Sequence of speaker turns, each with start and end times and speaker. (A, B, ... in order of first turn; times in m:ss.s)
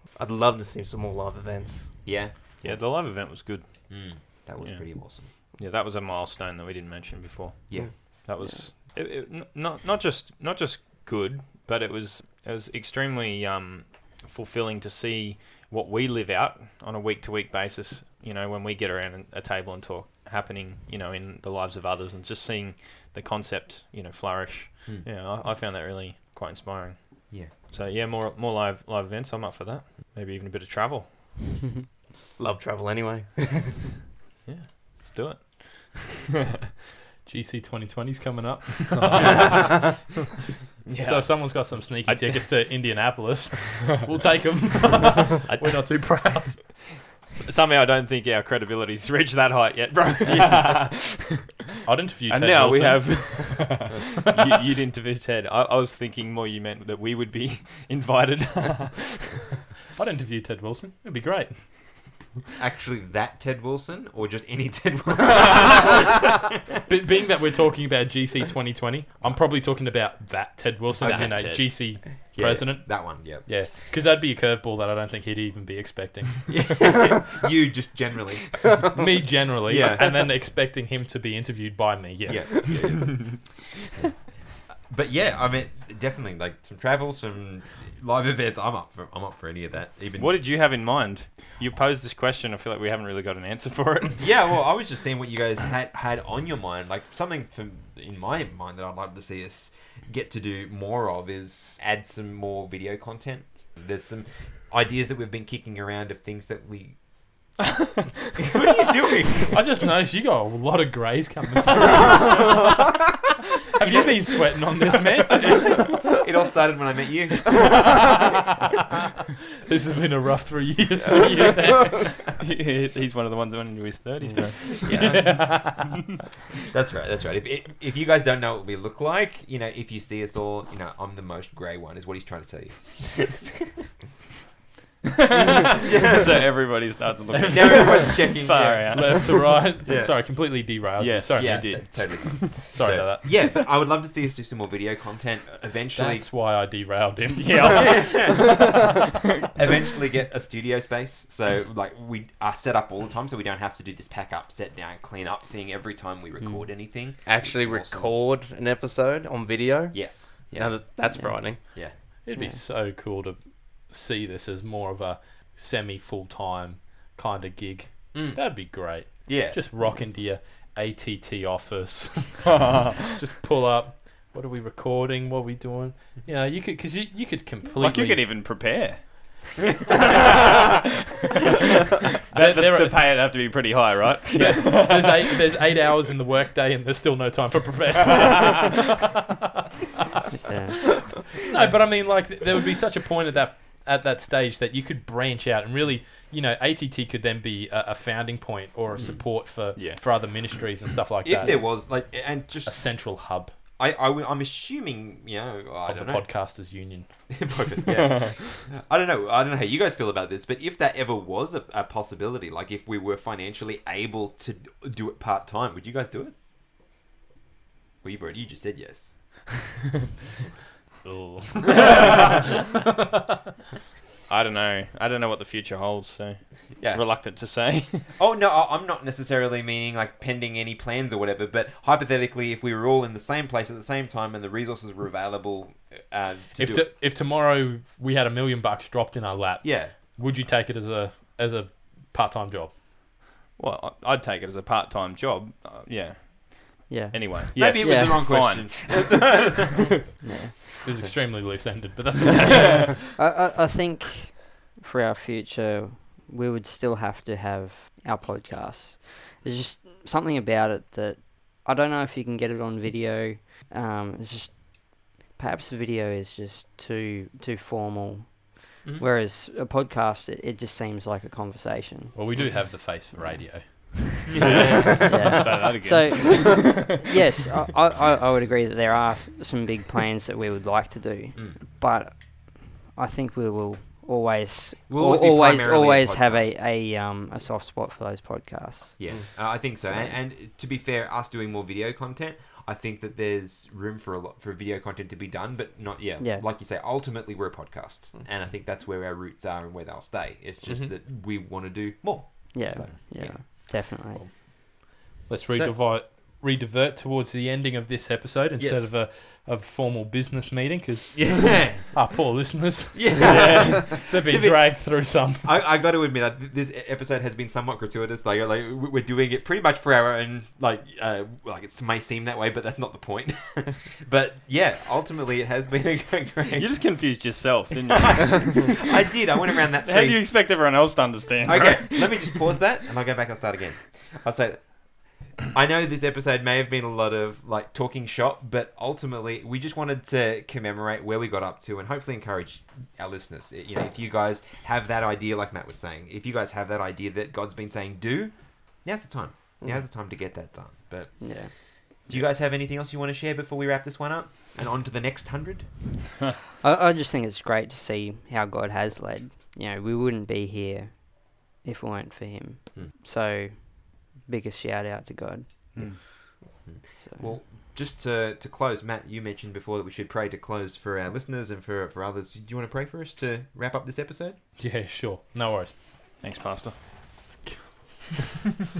0:00.2-0:02.2 A
0:02.0-0:03.4 B
0:02.6-0:31.5 C
0:03.9-0:05.3 B
0:07.7-0:08.0 B
0:32.4-0:33.9 A
0:34.5-0:36.2 C
0:37.2-0:39.7 D
0:40.9-0:43.0 C
0:41.0-0:47.0 D
0:47.4-0:51.2 C
0:51.9-0:53.8 D
0:52.3-0:59.5 C
1:00.0-1:02.3 D
1:02.6-1:06.4 B
1:06.9-1:16.8 D
1:11.0-1:13.6 B
1:11.1-1:11.7 C
1:16.5-1:18.9 B
1:18.9-1:23.1 D
1:19.7-1:20.3 B
1:22.3-1:30.4 B
1:30.2-1:34.5 C
1:34.2-1:47.6 B
1:48.4-1:49.6 B
1:49.5-1:52.7 D
1:53.7-1:55.7 D
1:53.8-1:54.1 B
1:55.3-1:58.1 B
1:59.6-2:02.2 D
2:02.2-2:05.9 C
2:04.8-2:05.4 B
2:04.9-2:05.8 D
2:06.7-2:13.5 B
2:15.8-2:16.9 B
2:16.0-2:19.6 C
2:17.4-2:23.5 D
2:17.5-2:19.3 B
2:19.8-2:20.6 B
2:21.0-2:22.5 C
2:21.4-2:26.3 B
2:26.0-2:28.0 D
2:27.4-2:28.6 C
2:27.8-2:28.7 B
2:29.6-2:38.2 B
2:37.2-2:41.8 A
2:39.9-2:40.9 B
2:41.1-2:41.5 E
2:41.6-2:42.0 B
2:42.2-2:58.5 D
2:42.2-2:42.6 E
2:48.1-2:49.6 B
2:57.8-2:59.7 C
3:02.3-3:05.3 C
3:02.3-3:03.6 D
3:04.4-3:08.9 D
3:10.4-3:11.0 E
3:11.5-3:23.6 D
3:19.5-3:20.8 C
3:21.2-3:23.0 B
3:23.8-3:26.3 B
3:25.9-3:27.7 D
3:27.3-3:36.4 B
3:28.0-3:28.4 C
3:38.0-3:39.6 B
3:41.0-3:42.0 D
3:44.3-3:48.1 C
3:46.8-3:56.9 B
3:56.6-4:02.8 D
3:59.6-3:59.9 B
4:03.6-4:09.1 C
4:06.9-4:08.4 E
4:07.6-4:09.9 B
4:10.2-4:10.6 E
4:10.8-4:12.9 D
4:13.2-4:32.4 E
4:32.1-4:34.4 D
4:33.1-4:34.3 E
4:34.4-4:34.7 B
4:35.1-4:37.0 C
4:35.1-4:50.2 E
4:41.4-4:41.6 B
4:44.9-4:46.7 B
4:49.0-5:03.8 B
4:49.1-4:49.6 A
4:56.2-4:56.4 E
5:00.7-5:00.9 A
5:02.5-5:04.2 E
5:03.6-5:15.5 D
5:08.6-5:08.9 B
5:11.1-5:12.0 B
5:12.9-5:27.4 B
5:26.6-5:28.8 C
5:28.1-5:30.8 B
5:29.8-5:32.6 C
5:31.4-5:56.0 B
5:49.6-5:49.9 A
5:51.2-5:52.0 E
5:56.6-6:07.4 E
6:05.7-6:06.0 C
6:06.4-6:14.4 B
6:14.6-6:15.8 D
6:16.2-6:16.8 C